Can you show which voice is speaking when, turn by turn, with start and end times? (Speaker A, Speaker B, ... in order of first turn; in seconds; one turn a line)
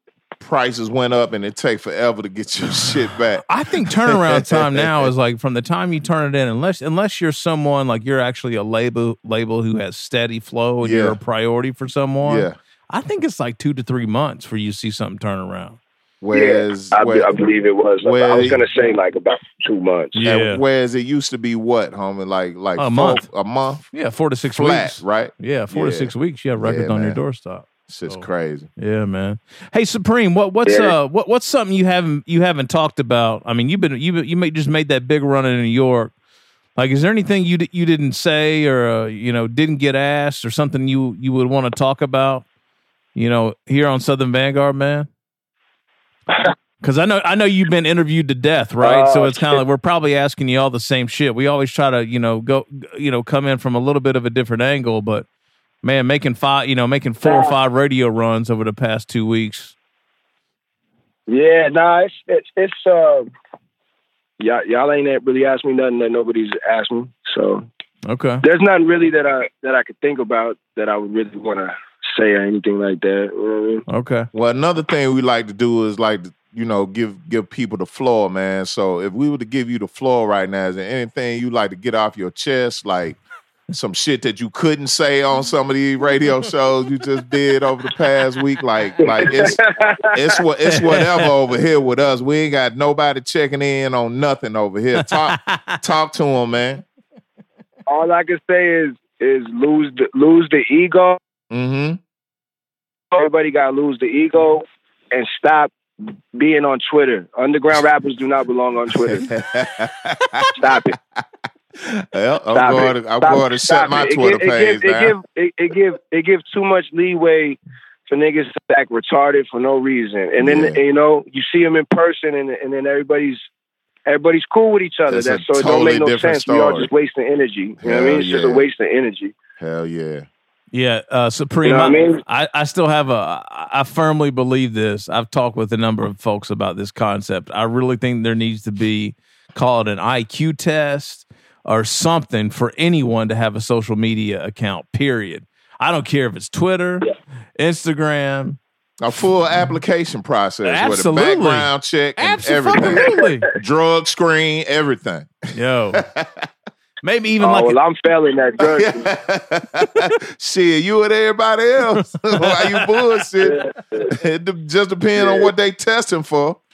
Speaker A: 0.4-5.1
Speaker B: 3.5-15.8
Speaker A: 10.8-11.2
Speaker A: 12.2-12.6
Speaker A: 16.2-17.3
Speaker C: 16.3-20.1
Speaker A: 18.0-18.6
Speaker B: 20.1-20.6
Speaker A: 20.2-23.9
Speaker B: 22.8-23.2
Speaker B: 23.9-36.1
Speaker A: 24.5-27.2
Speaker A: 27.9-28.7
Speaker C: 30.6-30.9
Speaker B: 36.8-42.4
Speaker B: 43.1-45.1
Speaker B: 46.8-55.2
Speaker C: 48.8-49.6
Speaker B: 55.8-59.7
Speaker C: 57.2-57.5
Speaker C: 61.3-63.3
Speaker C: 64.4-67.7
Speaker B: 68.0-68.4
Speaker C: 68.4-73.8
Speaker B: 73.9-74.3
Speaker A: 74.3-83.2
Speaker A: 83.7-89.6
Speaker C: 89.0-90.4
Speaker A: 90.1-96.8
Speaker B: 90.7-91.3
Speaker B: 95.0-95.8
Speaker C: 97.9-101.2
Speaker A: 101.5-102.0
Speaker C: 103.1-109.2
Speaker A: 108.9-110.9
Speaker C: 110.5-110.9
Speaker A: 111.8-115.1
Speaker C: 112.5-123.4
Speaker A: 120.4-120.8
Speaker C: 124.0-129.3
Speaker A: 125.1-126.9
Speaker A: 127.8-128.7
Speaker A: 129.6-130.3
Speaker B: 130.7-148.6
Speaker C: 131.6-132.2
Speaker A: 149.0-156.5
Speaker B: 150.6-153.5
Speaker C: 152.9-153.2
Speaker B: 155.5-156.0
Speaker B: 157.0-157.8
Speaker C: 157.4-159.1
Speaker A: 158.6-166.6
Speaker B: 162.3-163.0
Speaker C: 163.4-164.1
Speaker C: 165.1-165.5